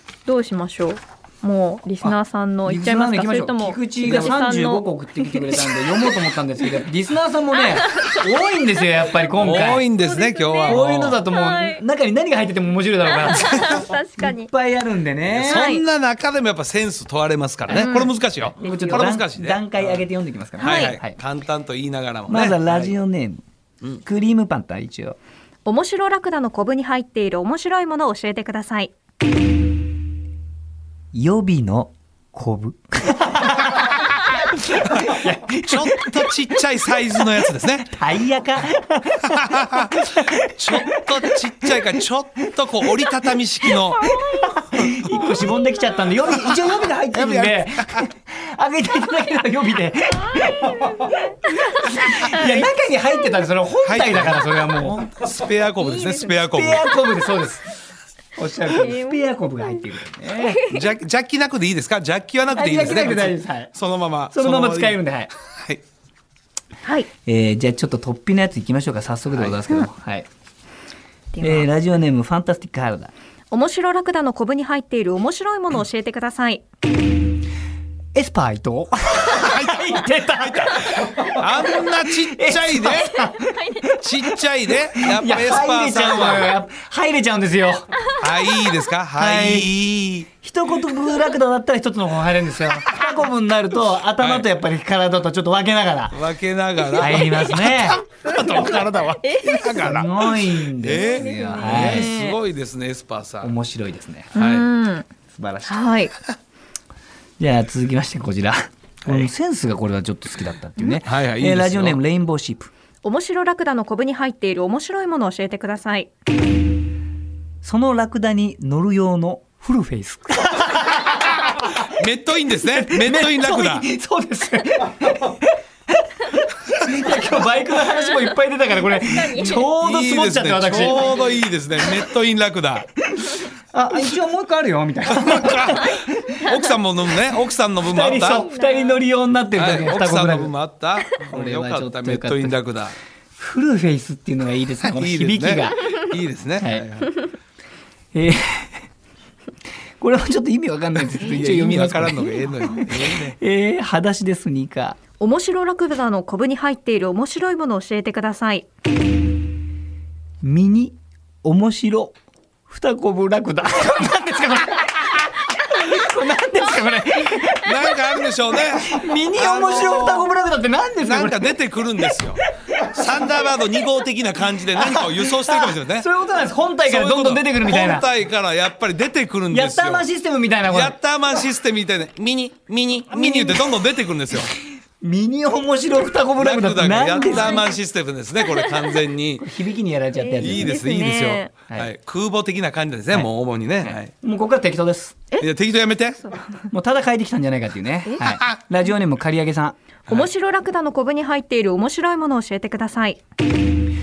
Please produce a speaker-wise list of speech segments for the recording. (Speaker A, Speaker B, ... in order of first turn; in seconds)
Speaker A: 0.3-6.1, 7.6-8.3, 9.6-11.8, 13.1-14.5, 15.5-15.8, 17.7-19.1, 20.6-21.0, 25.7-28.9, 44.0-46.1, 50.2-53.4, 55.7-57.0, 58.4-59.8, 60.4-60.8, 66.8-67.1, 71.3-71.7, 73.5-76.6, 83.1-83.9, 88.1-88.8, 98.2-99.9, 100.9-102.4, 104.3-105.1, 105.7-106.1, 113.0-116.1, 127.7-129.7, 136.5-136.7, 138.2-139.0, 155.2-158.7, 187.1-187.8, 188.4-189.0, 190.2-191.5, 196.1-196.7, 198.1-198.4, 200.1-203.2
Speaker B: 2.0-9.9, 10.7-15.7, 18.6-21.2, 22.3-23.4, 24.0-25.2, 31.1-36.4, 37.9-41.9, 44.0-51.2, 51.7-55.0, 56.5-57.7, 58.4-60.6, 62.5-63.7, 64.3-65.3, 67.2-70.3, 71.4-73.1, 78.1-87.9, 89.2-89.7, 90.4-96.2, 97.0-98.0, 99.8-102.1, 103.4-104.3, 105.3-105.8, 107.4-112.7, 117.6-121.7, 122.7-132.1, 133.1-136.3, 137.8-140.5, 141.2-142.6, 143.4-145.8, 146.6-146.8, 148.1-148.8, 150.0-155.0, 160.4-162.2, 162.7-168.0, 168.5-171.5, 174.8-178.1, 179.5-181.0, 183.1-183.8, 185.0-187.6, 189.4-190.8, 193.8-195.2, 196.7-199.8
Speaker C: 4.0-4.4, 9.3-11.3, 15.3-20.0, 20.6-22.9, 34.7-38.0, 39.3-44.1, 44.8-45.2, 47.1-48.1, 53.8-56.9, 60.7-65.8, 69.3-69.6, 79.3-83.2, 83.9-86.6, 88.2-90.3, 94.2-94.5, 96.1-103.5, 104.4-104.7, 111.0-112.0, 121.4-123.9, 126.8-127.1, 129.7-132.9, 135.1-138.5, 139.6-142.9, 144.8-147.3, 151.1-153.4, 167.6-170.3, 171.0-176.1, 176.9-180.1, 180.7-184.5, 186.4-189.5, 190.4-194.1, 195.4-196.2